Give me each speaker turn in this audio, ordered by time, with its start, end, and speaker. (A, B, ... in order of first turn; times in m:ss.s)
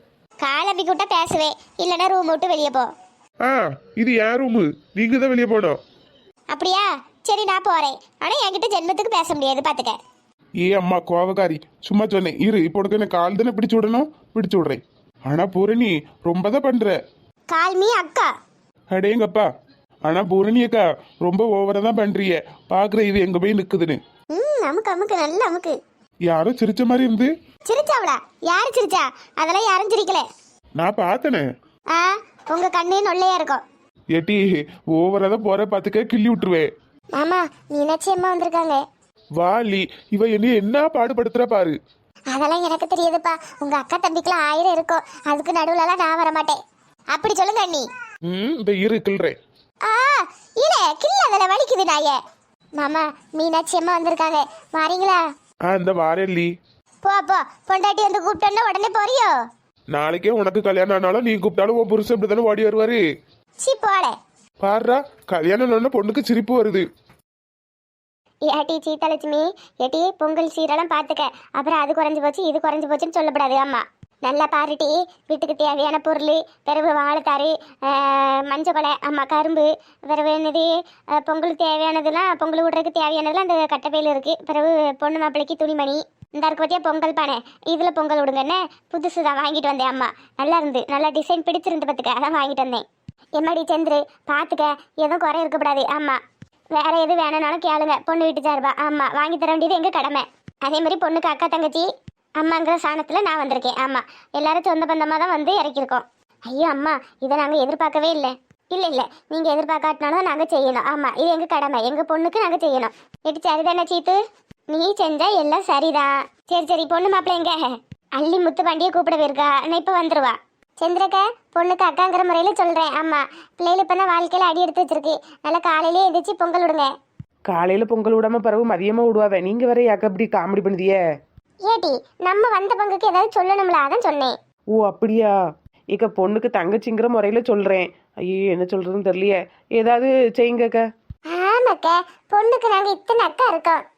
0:00.4-0:02.9 A
0:03.4-0:05.8 B
0:06.5-0:10.0 A
0:10.6-0:16.9 B
0:17.5-0:18.3 A
0:18.9-0:19.5 B
0:20.0-0:24.0 B
0:24.3-0:25.7 A
0:26.3-0:27.3 B
0:27.7-0:30.2 A
0:30.8-0:31.4 B
0:31.9-0:33.6 A
0:34.1-0:36.7 B
0:37.2-0:38.8 A
0:39.4-0:41.8 B
0:42.3-0:46.6 A
0:47.1-0:47.9 A
0:48.3-0:49.4 B
0:49.9-0:52.2 A
0:52.8-0:55.2 A
0:55.7-0:56.5 B
0:57.0-0:59.4 A
0:59.9-1:03.0 B
1:03.6-1:04.2 A
1:04.6-1:06.8 B
1:08.5-1:32.8 A
1:33.4-1:36.2 A
1:36.8-1:41.9 A
1:42.4-1:54.2 A
1:54.7-1:57.6 A
1:58.2-2:06.9 A
2:07.5-2:11.0 C
2:11.6-2:14.4 A
2:14.8-2:15.3 C
2:15.9-2:20.8 C
2:21.3-2:23.8 A